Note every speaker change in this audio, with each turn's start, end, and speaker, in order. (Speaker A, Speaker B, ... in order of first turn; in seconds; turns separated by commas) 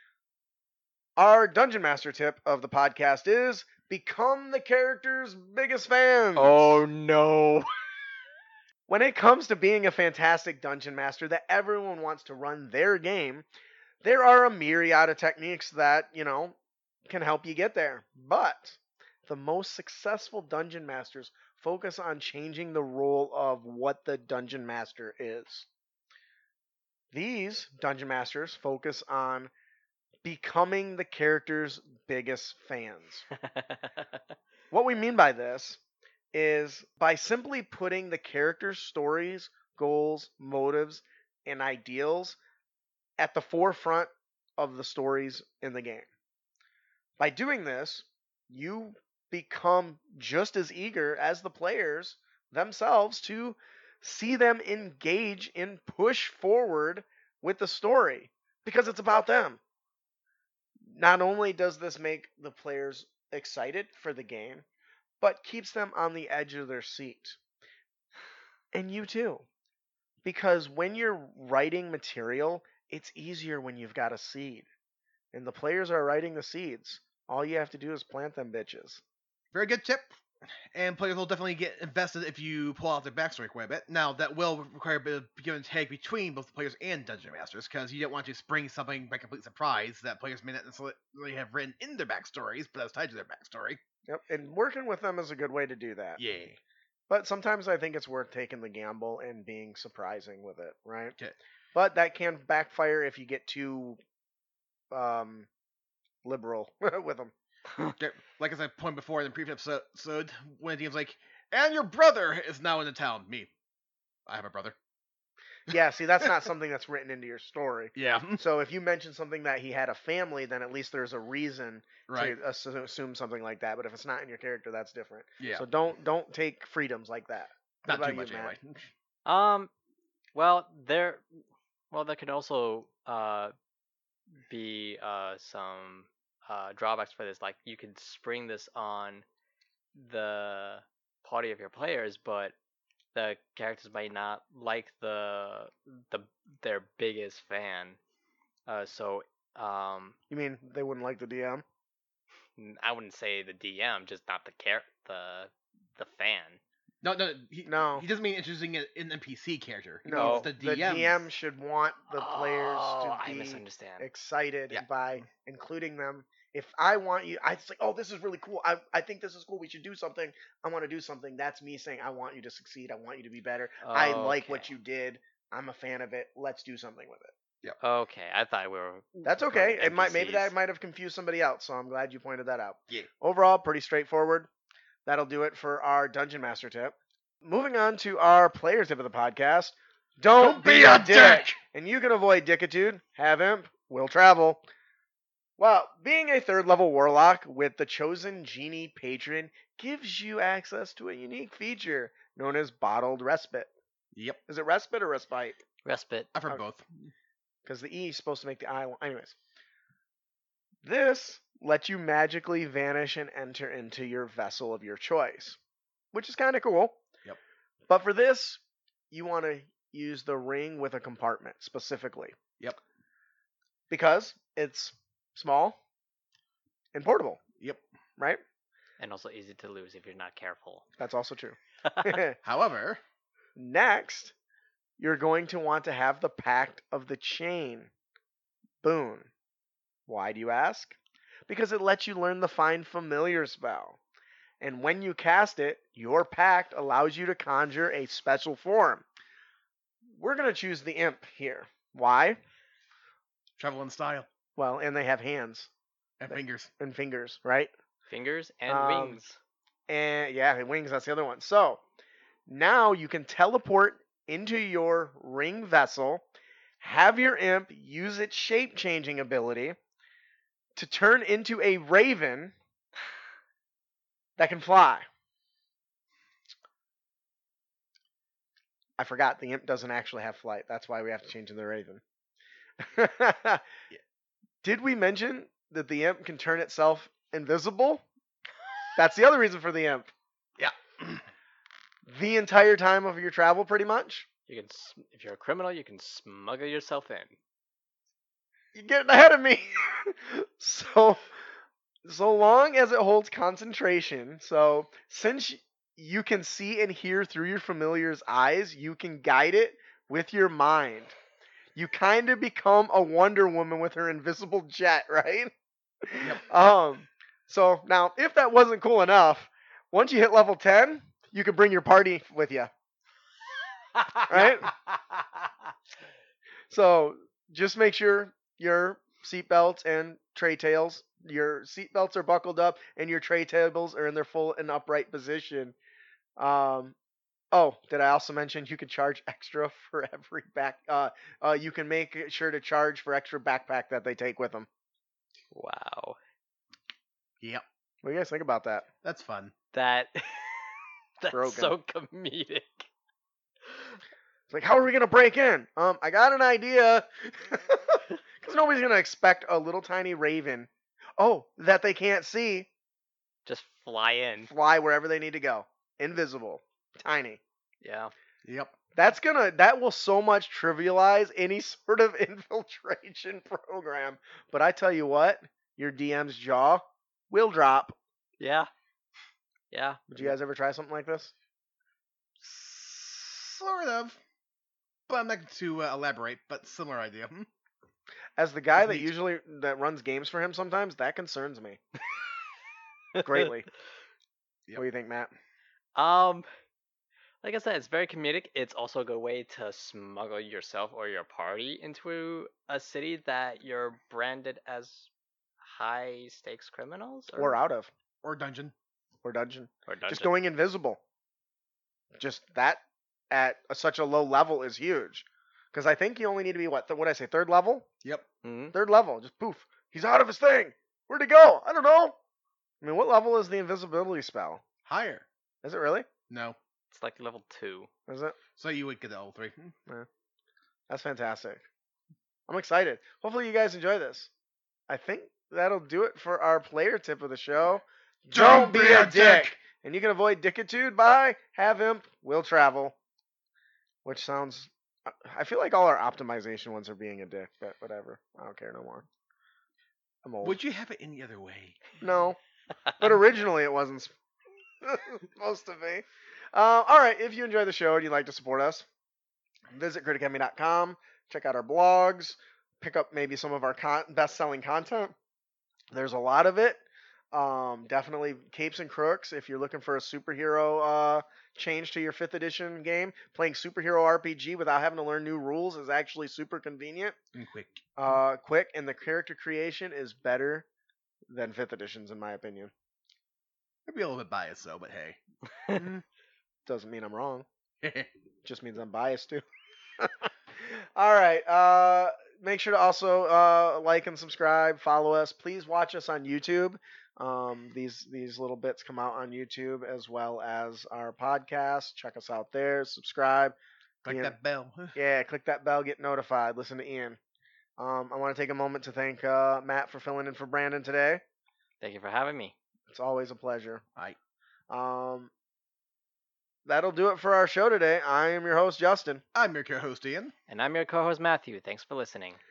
Speaker A: 1.2-6.8, Speaker B: 6.4-7.7, Speaker A: 8.9-13.5, Speaker A: 14.0-25.7, Speaker A: 27.1-29.5, Speaker A: 30.2-33.2, Speaker B: 33.4-34.2, Speaker A: 34.7-35.8, Speaker A: 36.3-42.4, Speaker A: 43.2-46.1, Speaker A: 47.2-59.6, Speaker A: 60.8-64.7, Speaker A: 65.2-67.4, Speaker A: 68.7-69.5, Speaker A: 70.2-74.7, Speaker A: 75.3-79.0, Speaker C: 79.5-93.8, Speaker A: 94.1-96.2, Speaker C: 96.2-96.6, Speaker A: 97.1-101.2, Speaker A: 101.7-104.0, Speaker A: 104.9-105.5, Speaker A: 106.2-107.3, Speaker C: 108.0-113.5, Speaker C: 114.3-114.8, Speaker A: 115.7-128.6, Speaker C: 118.0-118.4, Speaker C: 122.1-122.4, Speaker C: 125.4-125.7, Speaker C: 127.9-128.9, Speaker B: 129.3-129.7, Speaker B: 130.3-133.5, Speaker B: 134.5-139.2, Speaker B: 139.9-142.6, Speaker B: 143.1-148.0, Speaker B: 148.7-150.2, Speaker A: 150.3-151.6, Speaker B: 152.6-156.6, Speaker C: 157.0-161.2, Speaker A: 157.7-158.1, Speaker A: 160.1-177.3, Speaker B: 160.1-160.5, Speaker B: 162.1-164.1, Speaker C: 164.7-165.2, Speaker B: 173.8-174.7, Speaker B: 177.8-180.5, Speaker A: 179.2-184.5, Speaker A: 185.1-194.6, Speaker C: 190.4-191.6, Speaker A: 195.6-203.7, Speaker C: 204.1-204.4, Speaker A: 204.5-205.6, Speaker B: 205.8-206.3, Speaker C: 206.3-207.1, Speaker A: 207.7-209.3, Speaker A: 210.8-215.6, Speaker A: 216.1-217.0, Speaker A: 217.9-222.4, Speaker A: 223.9-225.8, Speaker A: 226.9-227.4, Speaker B: 229.0-230.9, Speaker A: 231.0-232.4, Speaker B: 231.8-232.2, Speaker C: 232.4-233.0, Speaker A: 233.6-234.3, Speaker A: 235.0-237.9, Speaker A: 238.8-239.3, Speaker A: 240.1-244.0, Speaker A: 244.6-249.1, Speaker A: 250.1-252.4, Speaker C: 253.6-254.3, Speaker A: 254.6-255.7, Speaker C: 256.2-256.7, Speaker A: 256.3-257.7, Speaker B: 258.1-259.4, Speaker A: 258.7-259.2, Speaker A: 259.9-261.8, Speaker A: 262.5-266.2, Speaker A: 266.8-269.8, Speaker A: 270.8-272.6, Speaker A: 274.4-275.1, Speaker A: 279.0-282.0, Speaker A: 282.8-283.6, Speaker A: 284.6-288.0, Speaker A: 289.0-290.1, Speaker C: 290.6-291.2, Speaker A: 292.1-294.3, Speaker B: 294.5-297.4, Speaker A: 298.7-301.3, Speaker A: 302.1-311.2, Speaker A: 311.8-315.5, Speaker A: 316.0-322.7, Speaker A: 324.3-324.7, Speaker A: 326.7-335.8, Speaker A: 336.4-336.9, Speaker A: 337.5-344.7, Speaker B: 345.5-346.2, Speaker A: 348.0-348.9, Speaker C: 349.0-349.5, Speaker B: 349.7-352.9, Speaker A: 351.3-351.8, Speaker A: 354.5-362.7, Speaker B: 363.5-364.5, Speaker A: 364.4-367.4, Speaker B: 367.8-368.1, Speaker C: 368.4-368.8, Speaker A: 369.0-378.0, Speaker B: 378.4-378.7, Speaker B: 379.7-380.0, Speaker A: 380.1-381.3, Speaker C: 382.4-384.2, Speaker C: 385.1-387.5, Speaker A: 388.4-391.8, Speaker C: 388.8-389.1, Speaker A: 393.2-393.7, Speaker A: 394.8-395.3, Speaker B: 396.0-396.5, Speaker B: 397.4-405.1, Speaker B: 405.6-407.6, Speaker A: 407.3-407.9, Speaker C: 408.2-408.7, Speaker A: 409.2-411.0, Speaker B: 409.9-410.3, Speaker A: 412.2-417.9, Speaker B: 418.4-418.8, Speaker A: 418.7-422.2, Speaker A: 422.8-424.6, Speaker C: 424.9-425.2, Speaker A: 425.6-426.1, Speaker C: 426.3-426.6, Speaker B: 426.9-427.9, Speaker A: 428.1-428.4, Speaker C: 428.6-429.7, Speaker A: 430.9-431.6, Speaker A: 432.5-434.3, Speaker A: 434.9-443.0, Speaker C: 438.3-439.5, Speaker A: 444.1-449.1, Speaker A: 450.2-450.6, Speaker C: 450.4-452.0, Speaker A: 452.0-452.4, Speaker A: 453.0-454.1, Speaker A: 454.8-458.9, Speaker A: 459.7-465.2, Speaker A: 465.9-477.2, Speaker C: 477.3-477.9, Speaker A: 478.0-480.7, Speaker A: 481.3-482.7, Speaker C: 483.9-486.0, Speaker A: 486.7-487.5, Speaker C: 487.8-488.1, Speaker A: 488.4-489.4, Speaker A: 490.0-503.6, Speaker C: 504.0-505.0, Speaker A: 504.1-504.4, Speaker A: 504.9-507.2, Speaker A: 507.8-511.2, Speaker B: 511.8-512.5, Speaker A: 512.9-513.8, Speaker A: 514.7-515.3, Speaker A: 516.6-519.2, Speaker C: 519.3-520.3, Speaker B: 520.5-522.4